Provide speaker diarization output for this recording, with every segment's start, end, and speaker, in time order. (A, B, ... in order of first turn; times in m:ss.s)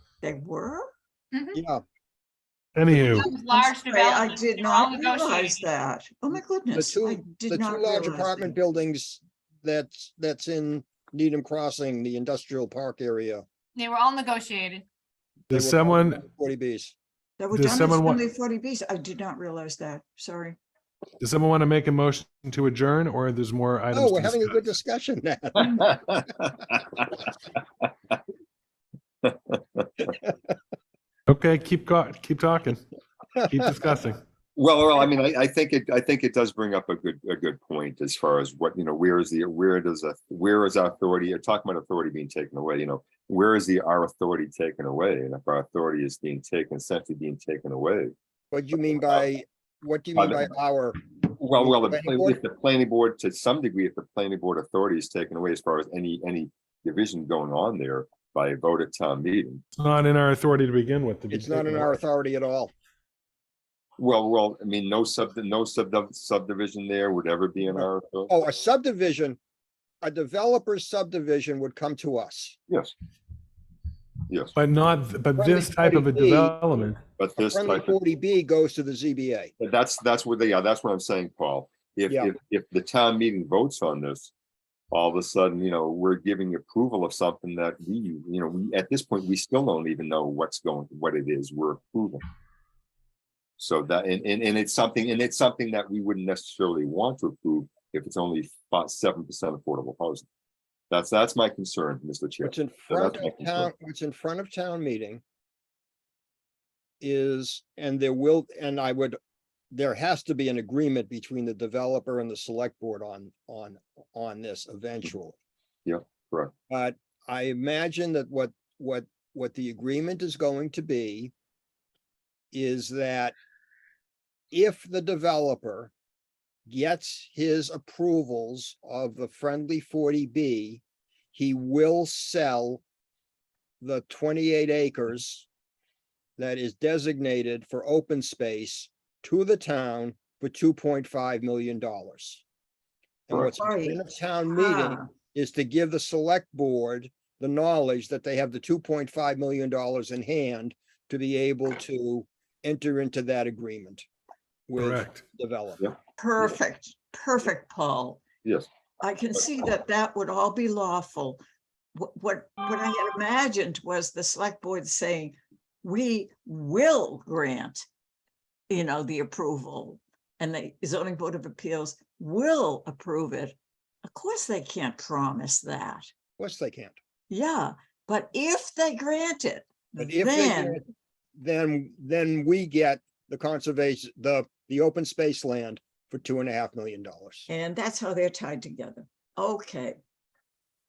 0:00.2-0:00.9 A
0:01.3-0:01.6 B
0:01.5-0:01.8 C
0:02.8-0:03.3 D
0:03.2-0:05.7 B
0:03.2-0:08.5 A
0:06.7-0:13.4 C
0:13.8-0:14.9 B
0:15.5-0:16.9 C
0:15.5-0:16.2 D
0:17.4-0:20.6 A
0:17.5-0:18.2 D
0:21.2-0:24.5 D
0:23.9-0:26.0 C
0:25.6-0:26.8 E
0:29.2-0:30.1 E
0:31.3-0:32.8 D
0:33.5-0:34.2 D
0:34.6-0:48.1 E
0:48.5-0:51.0 C
0:48.9-0:49.2 E
0:50.2-0:50.5 E
0:51.2-0:59.6 E
0:51.5-0:52.4 C
0:59.8-1:02.0 D
1:01.3-1:02.7 C
1:04.0-1:08.4 E
1:07.8-1:09.4 C
1:10.0-1:12.6 C
1:12.7-1:12.9 E
1:14.3-1:14.6 E
1:14.6-1:17.0 D
1:15.4-1:16.6 C
1:17.2-1:18.0 E
1:17.4-1:19.5 C
1:19.6-1:24.3 E
1:24.9-1:32.2 E
1:33.6-1:40.3 E
1:40.9-1:43.7 E
1:42.4-1:45.2 C
1:47.0-1:49.2 C
1:49.7-1:55.4 C
1:55.9-1:56.5 E
1:56.7-2:01.3 C
2:02.5-2:03.4 C
2:04.5-2:05.9 C
2:06.7-2:10.8 C
2:11.3-2:12.8 C
2:13.8-2:15.5 C
2:16.4-2:22.4 C
2:23.3-2:34.0 C
2:23.6-2:25.1 A
2:34.7-2:35.8 C
2:34.8-2:35.2 D
2:36.2-2:38.2 A
2:39.0-2:41.4 A
2:42.0-2:47.8 A
2:48.7-2:56.1 A
2:56.4-2:57.0 C
2:57.3-3:00.8 A
3:00.0-3:00.9 C
3:01.4-3:07.5 C
3:07.5-3:10.0 A